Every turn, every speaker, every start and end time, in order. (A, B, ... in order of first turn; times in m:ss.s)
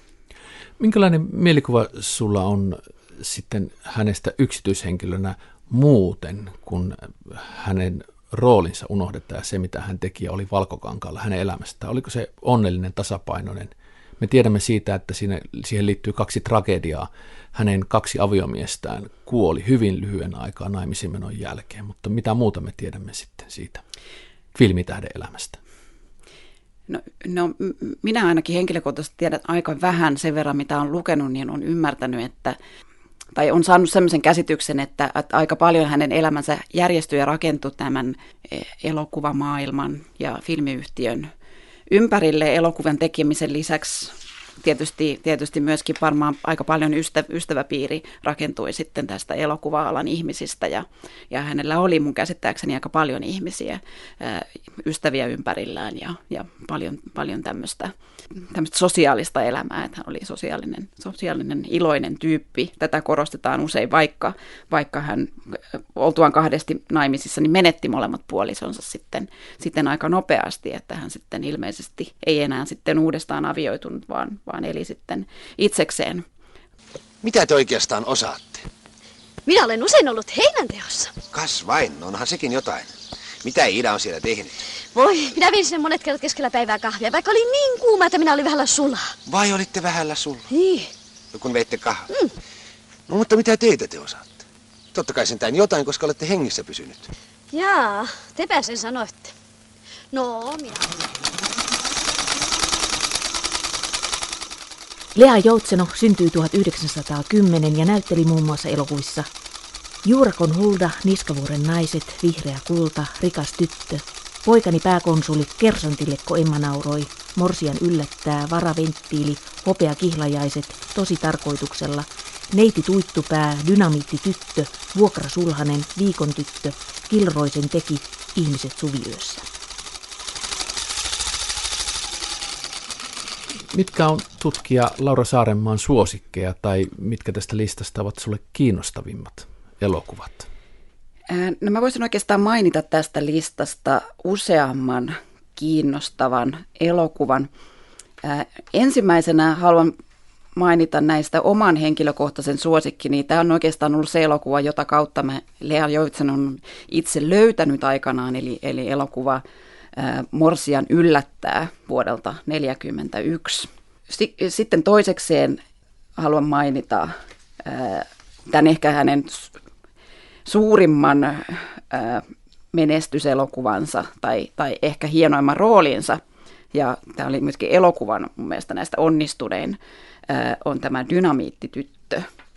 0:00.8-0:23.8 A
0:24.5-0:25.6 A
0:26.9-0:32.6 B
0:33.4-0:41.3 B
0:41.9-1:05.3 B
1:06.0-1:16.2 B
1:17.2-1:18.6 C
1:19.4-1:21.1 D
1:21.3-1:22.9 C
1:23.4-1:24.6 C
1:24.9-1:29.2 D
1:29.2-1:30.5 C
1:30.5-1:30.9 D
1:31.3-1:32.1 C
1:33.1-1:37.1 C
1:37.5-1:39.3 D
1:40.1-1:41.0 D
1:45.1-1:49.3 E
1:50.0-2:09.4 E
2:13.7-2:20.5 A
2:21.3-2:27.5 B
2:28.2-2:29.9 B
2:30.6-2:39.4 B
2:39.9-2:45.6 B
2:46.2-2:49.5 B
2:50.4-2:56.2 B
2:56.7-3:02.3 B